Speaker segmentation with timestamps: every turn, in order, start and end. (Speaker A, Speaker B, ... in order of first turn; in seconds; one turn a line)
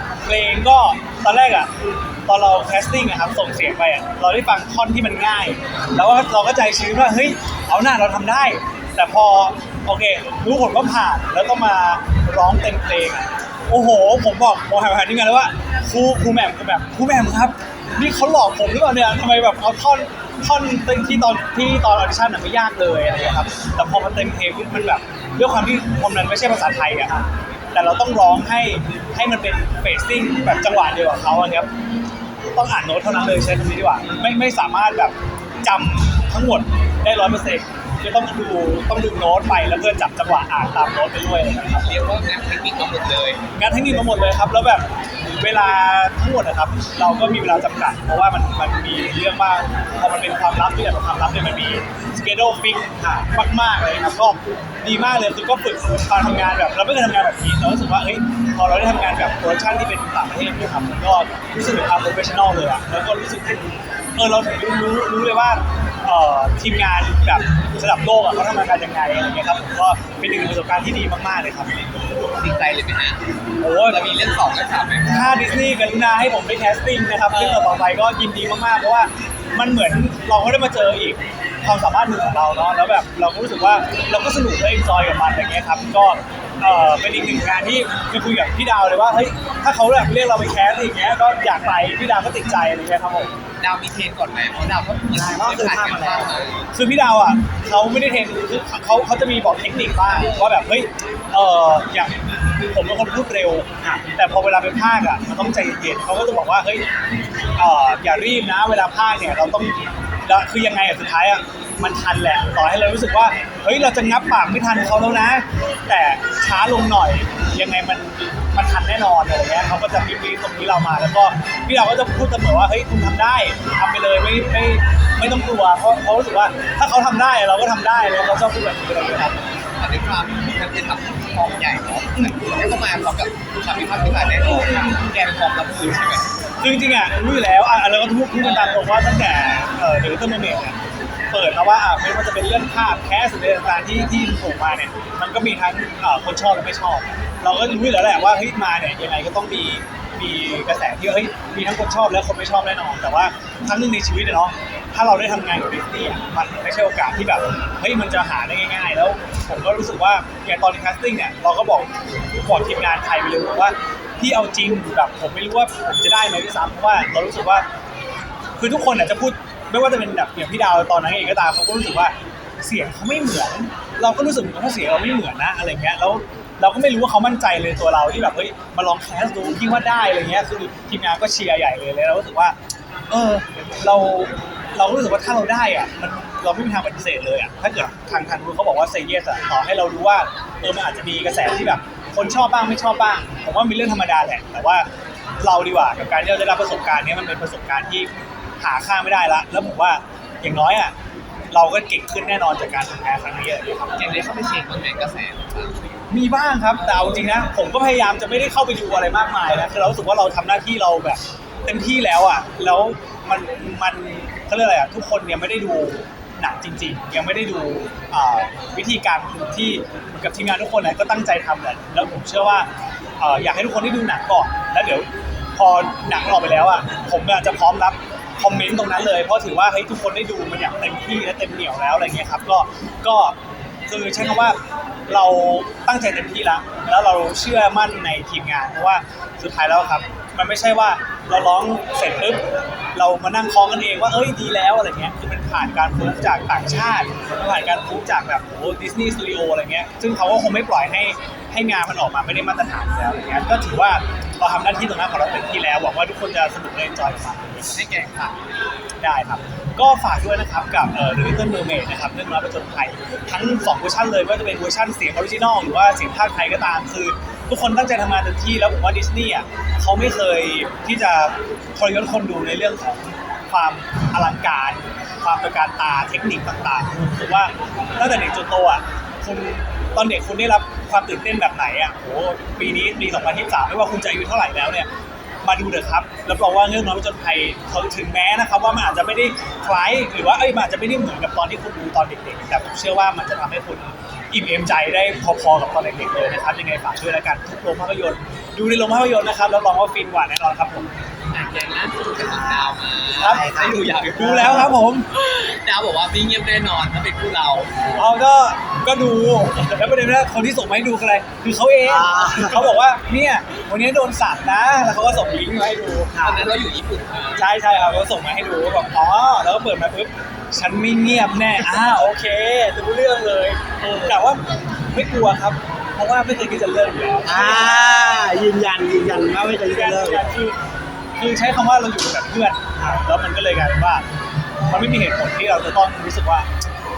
Speaker A: 0.2-1.7
Speaker A: 2.3-31.7
Speaker A: 32.5-42.0
Speaker B: 41.8-43.4
Speaker A: 43.5-71.8
Speaker C: 53.0-53.3
Speaker B: 72.4-73.2
Speaker A: 73.6-74.1
Speaker B: 73.8-75.2
Speaker A: 75.1-93.3
Speaker B: 77.3-77.8
Speaker B: 93.6-96.7
Speaker C: 95.1-96.5
Speaker A: 96.7-102.1
Speaker B: 100.1-100.5
Speaker A: 102.7-106.9
Speaker A: 107.6-129.4
Speaker B: 129.8-136.3
Speaker A: 134.7-135.0
Speaker A: 136.6-140.8
Speaker A: 141.3-161.9
Speaker A: 162.4-167.7
Speaker A: 168.6-182.6
Speaker A: 183.1-194.9
Speaker A: 195.4-200.9
Speaker A: 201.5-204.2
Speaker B: 204.0-205.9
Speaker A: 206.1-242.4
Speaker A: 242.9-257.8
Speaker B: 257.7-258.4
Speaker A: 259.0-284.9
Speaker A: 285.4-300.9
Speaker B: 301.3-307.9
Speaker C: 302.2-304.8
Speaker A: 303.2-303.6
Speaker A: 304.2-305.1
Speaker A: 307.9-316.1
Speaker C: 311.9-312.7
Speaker C: 316.1-316.5
Speaker B: 316.2-317.4
Speaker A: 317.4-328.0
Speaker B: 323.8-324.2
Speaker C: 327.2-330.4
Speaker A: 329.7-330.6
Speaker A: 331.2-334.1
Speaker A: 334.7-336.5